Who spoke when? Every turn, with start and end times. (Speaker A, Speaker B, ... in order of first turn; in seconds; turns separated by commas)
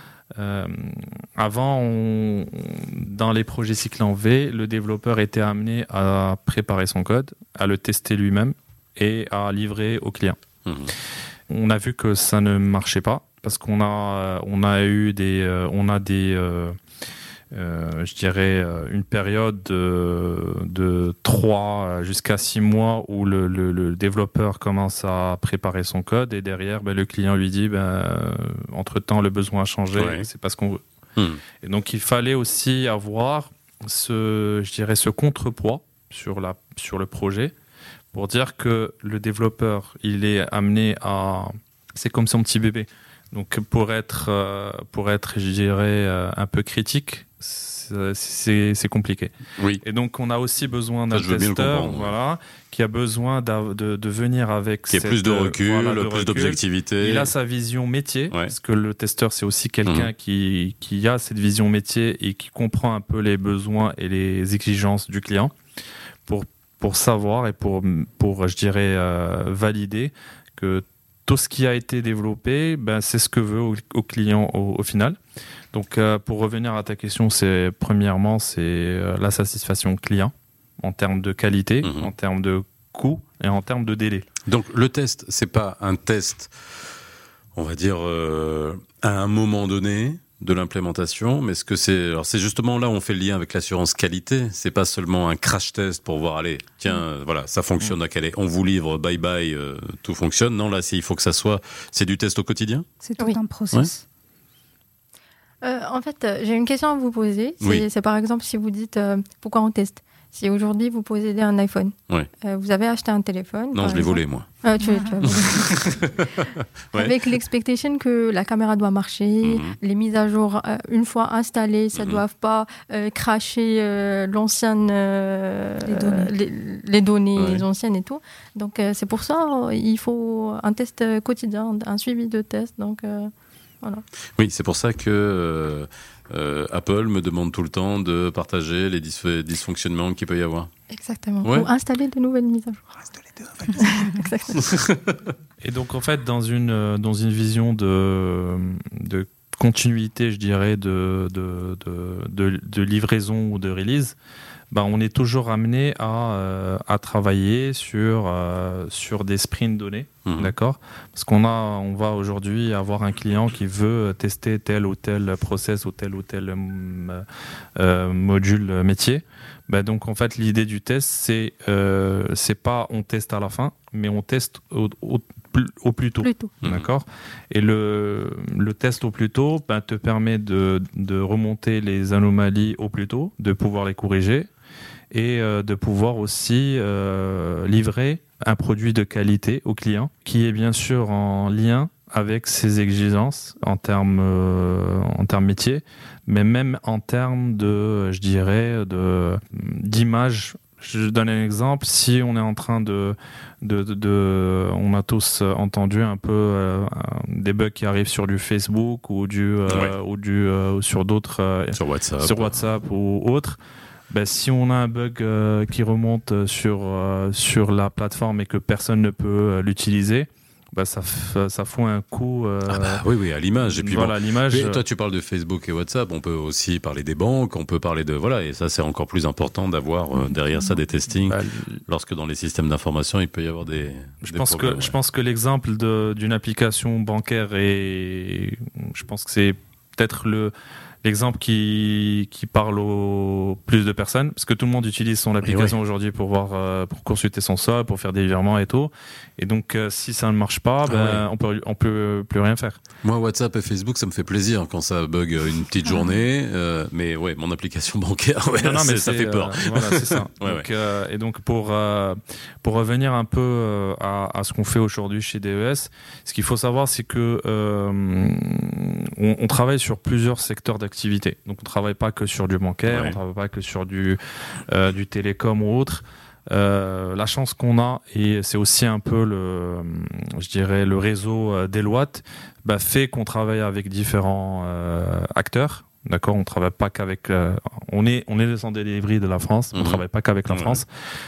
Speaker A: 0.4-10.4, Speaker B: 10.7-10.9, Speaker A: 11.5-16.8, Speaker A: 17.5-30.8, Speaker B: 29.9-30.3, Speaker A: 31.6-37.5, Speaker A: 38.1-65.5, Speaker B: 51.1-52.1, Speaker B: 54.9-57.3, Speaker B: 59.9-60.1, Speaker A: 66.2-75.2, Speaker A: 75.7-84.2, Speaker B: 81.8-82.1, Speaker B: 84.5-86.5, Speaker B: 87.5-102.9, Speaker C: 103.0-104.0, Speaker D: 105.6-116.3, Speaker B: 107.6-107.9, Speaker B: 113.7-114.5, Speaker C: 114.8-115.2, Speaker B: 115.2-117.1, Speaker D: 116.9-133.3, Speaker B: 119.4-119.8, Speaker B: 121.9-122.2, Speaker C: 125.8-126.4, Speaker B: 127.3-127.7, Speaker B: 134.4-140.7, Speaker D: 140.9-142.9, Speaker B: 141.4-141.7, Speaker D: 143.7-144.7, Speaker A: 145.6-154.2, Speaker A: 154.7-167.2, Speaker B: 160.2-160.5, Speaker A: 167.8-184.5, Speaker D: 176.2-176.5, Speaker B: 176.6-176.9, Speaker A: 185.1-213.6, Speaker B: 209.7-209.9, Speaker B: 211.7-212.5, Speaker A: 214.1-223.0, Speaker B: 222.7-231.4, Speaker A: 223.6-224.8, Speaker A: 231.2-231.8, Speaker B: 231.9-234.9, Speaker A: 234.2-240.5, Speaker A: 241.0-252.8, Speaker B: 245.4-245.8, Speaker B: 250.8-251.2, Speaker B: 253.0-260.7, Speaker D: 255.8-256.1, Speaker A: 258.6-290.9, Speaker B: 272.9-273.2, Speaker B: 289.7-290.8